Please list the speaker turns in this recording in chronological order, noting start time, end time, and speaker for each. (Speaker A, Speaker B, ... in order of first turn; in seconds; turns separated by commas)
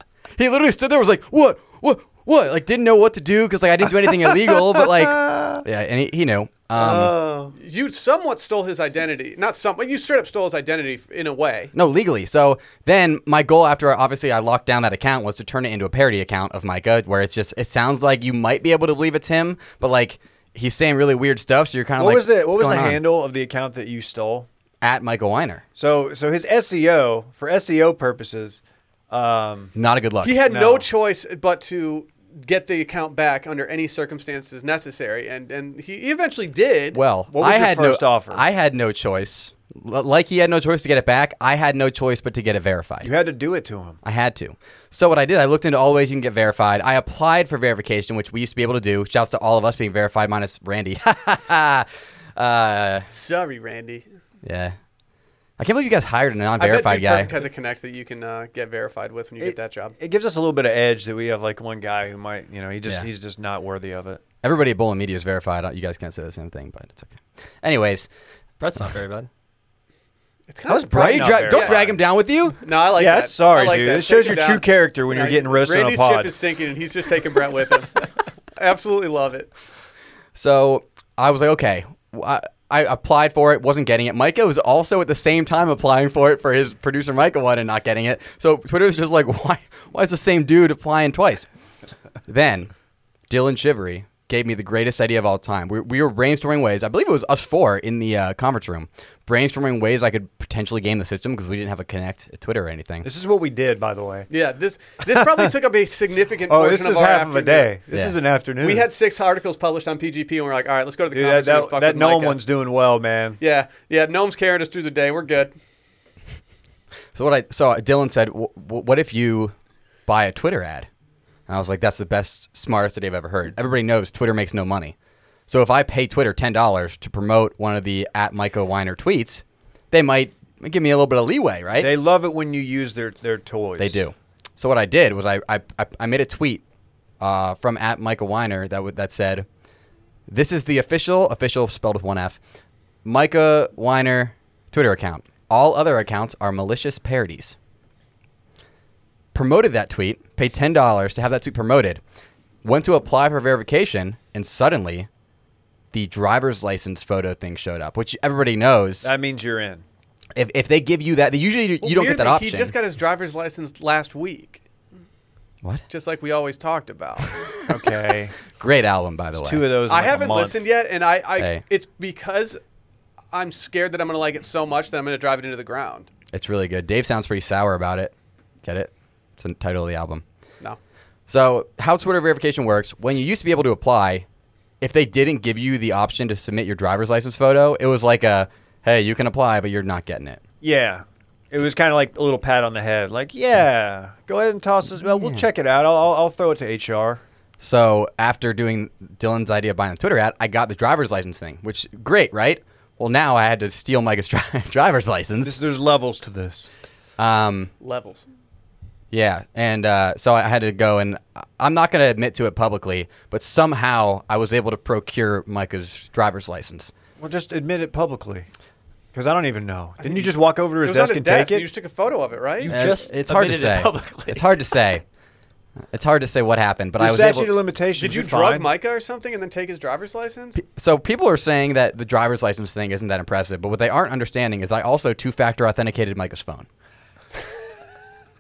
Speaker A: 0.4-7.2, Speaker B: 4.7-5.6, Speaker B: 6.8-7.2, Speaker C: 6.8-11.7, Speaker A: 11.7-23.0, Speaker B: 22.0-24.5, Speaker A: 24.8-25.6, Speaker B: 25.8-29.7, Speaker A: 29.8-30.4, Speaker C: 30.2-37.0, Speaker B: 30.4-30.9, Speaker A: 36.9-43.1, Speaker B: 37.3-38.4, Speaker B: 43.0-44.0, Speaker A: 44.0-53.1, Speaker C: 53.1-54.1, Speaker A: 54.4-54.7, Speaker A: 55.6-57.3, Speaker C: 56.6-59.9, Speaker B: 59.4-64.2, Speaker A: 64.4-68.1, Speaker D: 68.6-69.3, Speaker C: 70.5-71.8, Speaker B: 70.7-72.0, Speaker A: 70.7-72.6, Speaker C: 72.6-79.5, Speaker B: 73.0-76.3, Speaker A: 80.3-91.5, Speaker A: 92.3-92.7, Speaker A: 93.3-103.0, Speaker B: 103.0-104.3, Speaker C: 104.3-107.7, Speaker B: 105.1-105.5, Speaker B: 106.5-108.9, Speaker C: 108.6-112.4, Speaker B: 111.1-113.4, Speaker C: 113.4-115.5, Speaker A: 117.1-119.5, Speaker A: 120.1-120.9, Speaker A: 121.5-124.9, Speaker A: 125.5-131.9, Speaker B: 131.8-134.0, Speaker A: 133.8-136.6, Speaker A: 137.2-139.4, Speaker A: 140.3-142.4, Speaker A: 143.0-147.6, Speaker A: 149.3-152.0, Speaker A: 152.6-155.1, Speaker A: 155.9-159.1, Speaker B: 159.0-159.8, Speaker A: 160.3-162.7, Speaker C: 161.8-164.6, Speaker C: 165.9-167.4, Speaker B: 167.7-168.3, Speaker A: 168.5-169.7, Speaker B: 169.3-170.6, Speaker C: 169.9-172.6, Speaker C: 173.3-176.1, Speaker A: 176.3-180.2, Speaker A: 181.3-184.2, Speaker A: 184.8-190.4, Speaker B: 190.6-197.2, Speaker A: 195.1-195.4, Speaker A: 197.6-205.6, Speaker B: 205.4-206.7, Speaker A: 207.2-207.7, Speaker C: 207.8-208.2, Speaker A: 209.1-216.9, Speaker B: 217.2-218.5, Speaker B: 219.1-221.7, Speaker C: 220.0-222.7, Speaker D: 222.6-224.7, Speaker A: 222.7-225.0, Speaker A: 225.9-227.6, Speaker B: 227.0-228.7, Speaker C: 227.9-230.6, Speaker A: 230.6-236.7